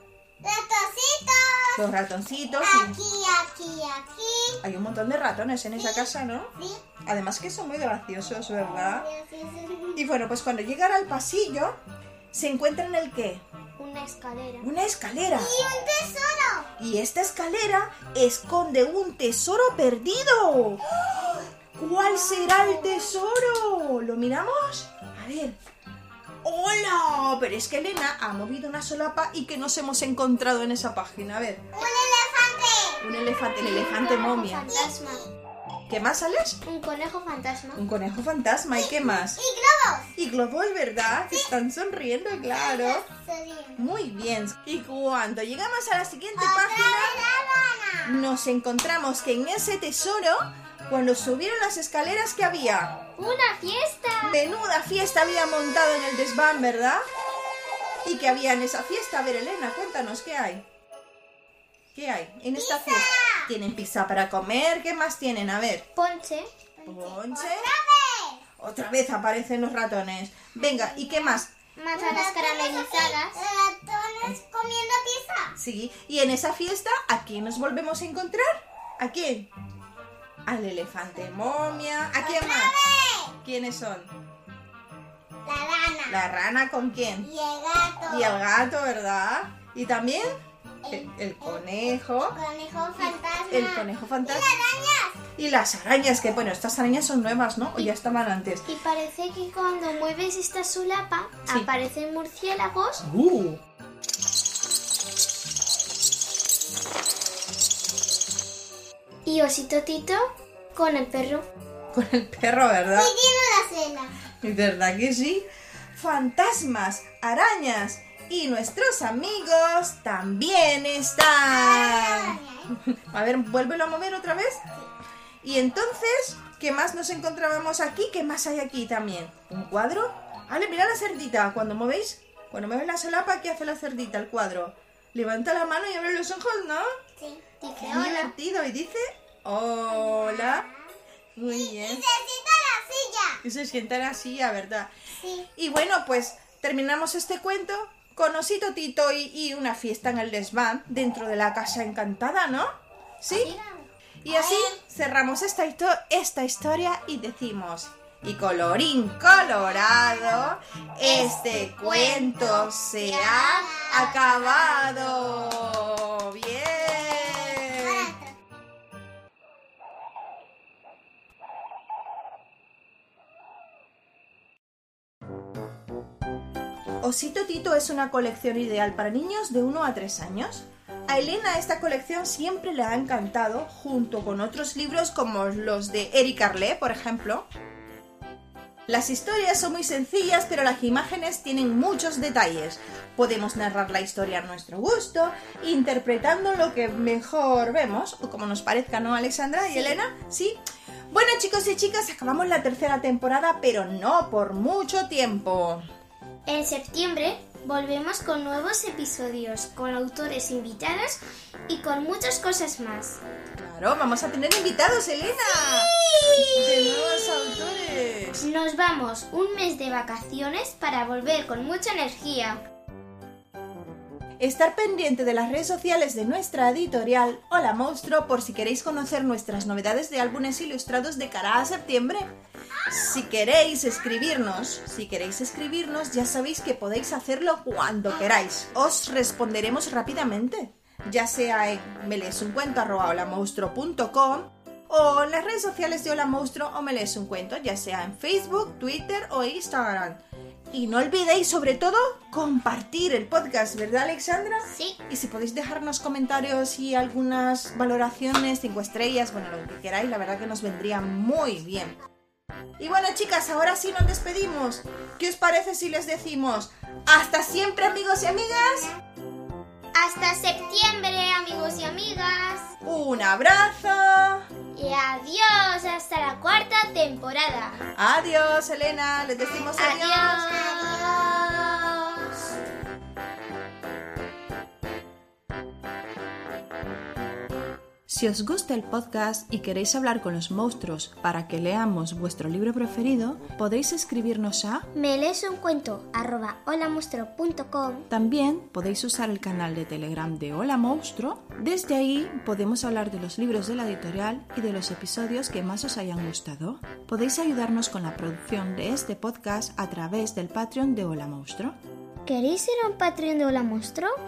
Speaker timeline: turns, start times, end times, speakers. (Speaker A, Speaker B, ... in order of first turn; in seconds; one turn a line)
Speaker A: 0.4-1.8
Speaker B: 1.8-3.0
Speaker A: 2.6-4.6
Speaker B: 4.6-6.5
Speaker A: 5.8-6.8
Speaker B: 7.0-9.1
Speaker A: 8.8-10.0
Speaker B: 9.9-11.8
Speaker B: 12.3-13.4
Speaker C: 13.8-14.7
Speaker B: 14.6-15.5
Speaker A: 15.3-16.7
Speaker B: 16.8-20.8
Speaker B: 21.7-25.6
Speaker B: 26.4-31.6
Speaker A: 31.8-33.0
Speaker B: 33.0-34.7
Speaker C: 33.6-35.2
Speaker A: 34.6-35.3
Speaker B: 35.9-36.6
Speaker C: 36.6-37.8
Speaker B: 37.8-39.4
Speaker A: 38.7-40.1
Speaker B: 40.1-43.0
Speaker A: 42.5-43.8
Speaker B: 43.8-47.2
Speaker A: 46.4-48.1
Speaker B: 48.0-53.0
Speaker C: 53.2-54.4
Speaker B: 54.2-57.0
Speaker B: 58.0-60.6
Speaker B: 61.9-65.8
Speaker A: 62.5-63.5
Speaker C: 65.9-66.5
Speaker A: 66.8-68.5
Speaker B: 66.8-67.7
Speaker B: 68.6-71.5
Speaker A: 70.9-71.4
Speaker C: 71.7-73.4
Speaker A: 71.9-75.5
Speaker B: 75.5-79.5
Speaker B: 80.5-82.7
Speaker A: 82.2-83.3
Speaker B: 83.4-84.1
Speaker A: 85.4-86.2
Speaker B: 86.1-87.3
Speaker A: 87.2-88.4
Speaker B: 88.0-90.3
Speaker A: 90.8-95.2
Speaker B: 90.9-92.4
Speaker B: 93.0-94.6
Speaker B: 95.3-98.7
Speaker C: 98.7-103.0
Speaker B: 103.0-103.6
Speaker C: 109.2-111.5
Speaker B: 111.9-113.1
Speaker A: 112.9-114.1
Speaker B: 114.4-122.4
Speaker A: 121.5-122.7
Speaker B: 123.1-124.6
Speaker B: 125.4-136.8
Speaker A: 137.2-137.4
Speaker C: 137.6-138.3
Speaker B: 137.8-140.7
Speaker A: 139.9-140.9
Speaker B: 141.3-142.1
Speaker A: 141.5-143.4
Speaker B: 143.4-144.9
Speaker A: 145.2-145.5
Speaker B: 145.5-152.7
Speaker B: 153.2-153.6
Speaker C: 153.3-153.8
Speaker B: 154.2-168.1
Speaker A: 154.3-154.8
Speaker A: 159.4-160.5
Speaker A: 161.1-165.6
Speaker A: 166.8-168.3
Speaker B: 177.0-187.4
Speaker B: 188.9-200.6
Speaker C: 199.6-199.9
Speaker B: 201.1-205.8
Speaker C: 206.4-213.2
Speaker B: 213.6-215.9
Speaker C: 216.1-216.4
Speaker B: 216.5-218.4
Speaker C: 218.4-222.6
Speaker B: 224.4-232.3
Speaker B: 232.9-250.2
Speaker B: 250.7-261.9
Speaker C: 254.6-255.0
Speaker B: 262.8-268.9
Speaker C: 269.9-272.7
Speaker B: 272.8-274.4
Speaker C: 274.7-277.8
Speaker B: 277.9-280.4
Speaker C: 279.8-282.5
Speaker A: 280.4-281.4
Speaker B: 288.1-294.9
Speaker C: 294.9-298.1
Speaker B: 298.1-311.8
Speaker C: 312.2-314.2